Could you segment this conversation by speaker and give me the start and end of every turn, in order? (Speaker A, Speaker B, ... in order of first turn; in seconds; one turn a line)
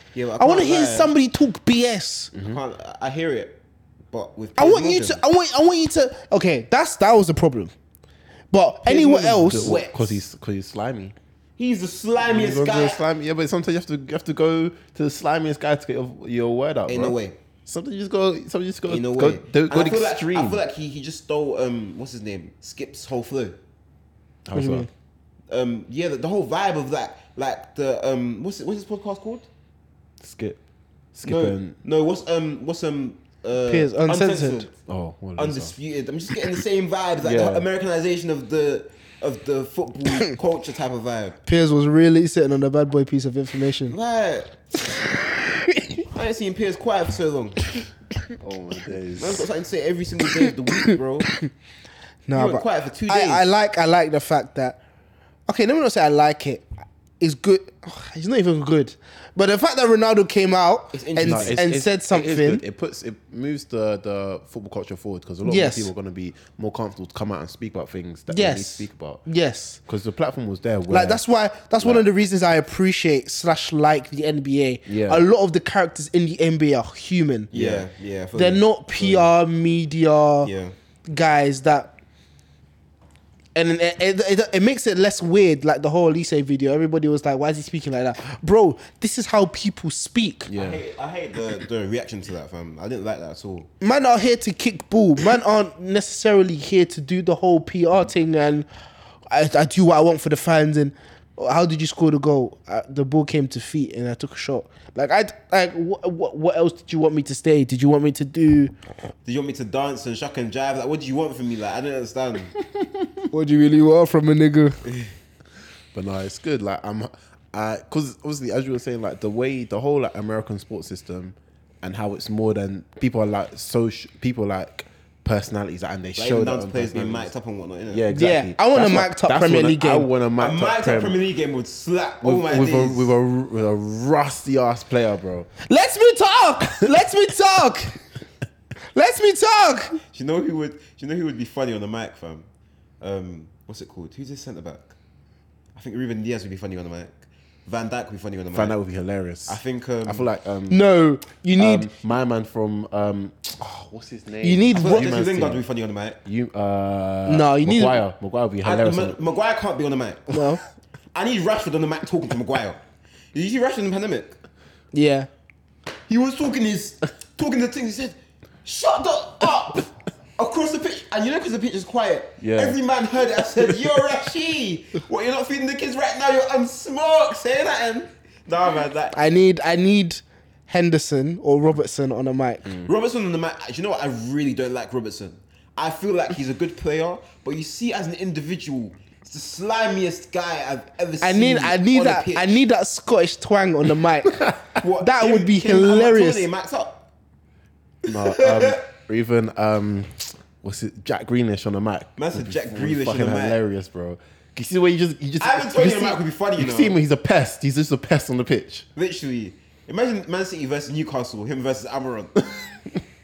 Speaker A: 0.1-1.1
Speaker B: 0.4-2.3
Speaker C: 2.3-2.6
Speaker A: 2.5-3.6
Speaker A: 4.1-5.2
Speaker B: 4.6-7.7
Speaker B: 8.5-9.9
Speaker C: 8.9-11.2
Speaker A: 9.5-10.1
Speaker A: 11.6-13.0
Speaker C: 12.2-20.6
Speaker A: 16.9-17.4
Speaker A: 18.9-23.6
Speaker C: 24.5-24.9
Speaker B: 24.5-24.9
Speaker A: 25.5-29.5
Speaker C: 30.2-30.6
Speaker C: 31.1-31.8
Speaker A: 31.2-34.7
Speaker B: 33.7-34.7
Speaker C: 34.9-35.7
Speaker A: 35.4-41.4
Speaker C: 37.2-37.7
Speaker B: 41.5-44.0
Speaker A: 43.9-44.5
Speaker B: 45.3-46.0
Speaker A: 46.1-47.6
Speaker C: 48.4-49.5
Speaker A: 49.2-51.3
Speaker B: 52.3-54.8
Speaker A: 52.3-53.5
Speaker B: 55.5-56.7
Speaker B: 57.2-62.6
Speaker A: 60.9-61.6
Speaker C: 61.2-69.2
Speaker B: 65.4-65.9
Speaker B: 68.3-69.8
Speaker C: 69.9-71.2
Speaker B: 70.9-77.5
Speaker C: 71.8-72.1
Speaker C: 74.9-75.2
Speaker C: 77.5-77.9
Speaker A: 77.5-79.3
Speaker B: 78.3-80.5
Speaker A: 80.4-80.7
Speaker B: 81.1-81.9
Speaker B: 83.5-90.5
Speaker C: 90.5-90.8
Speaker A: 90.5-93.7
Speaker B: 93.8-98.7
Speaker B: 99.3-108.7
Speaker A: 109.2-112.5
Speaker C: 112.6-113.2
Speaker B: 113.3-114.8
Speaker A: 114.8-115.1
Speaker C: 115.9-127.3
Speaker A: 126.2-128.1
Speaker C: 127.9-131.2
Speaker B: 128.1-130.1
Speaker A: 130.4-133.1
Speaker C: 132.2-135.5
Speaker B: 135.6-138.0
Speaker B: 138.9-140.0
Speaker A: 140.1-142.5
Speaker A: 143.0-144.9
Speaker A: 145.8-148.8
Speaker C: 148.5-150.8
Speaker A: 149.5-150.3
Speaker B: 150.7-151.9
Speaker C: 151.6-155.6
Speaker B: 154.4-155.1
Speaker A: 154.7-156.2
Speaker C: 156.2-159.2
Speaker B: 157.3-158.0
Speaker A: 158.6-160.4
Speaker B: 160.3-160.6
Speaker A: 161.1-162.8
Speaker A: 163.3-164.4
Speaker B: 164.9-165.3
Speaker A: 166.1-179.2
Speaker C: 172.4-172.8
Speaker B: 179.2-182.7
Speaker A: 182.8-192.6
Speaker B: 191.2-194.4
Speaker C: 194.3-194.7
Speaker A: 194.8-197.1
Speaker B: 195.0-196.5
Speaker A: 198.1-198.8
Speaker C: 198.1-208.9
Speaker A: 202.2-203.6
Speaker A: 205.4-207.0
Speaker A: 209.0-212.5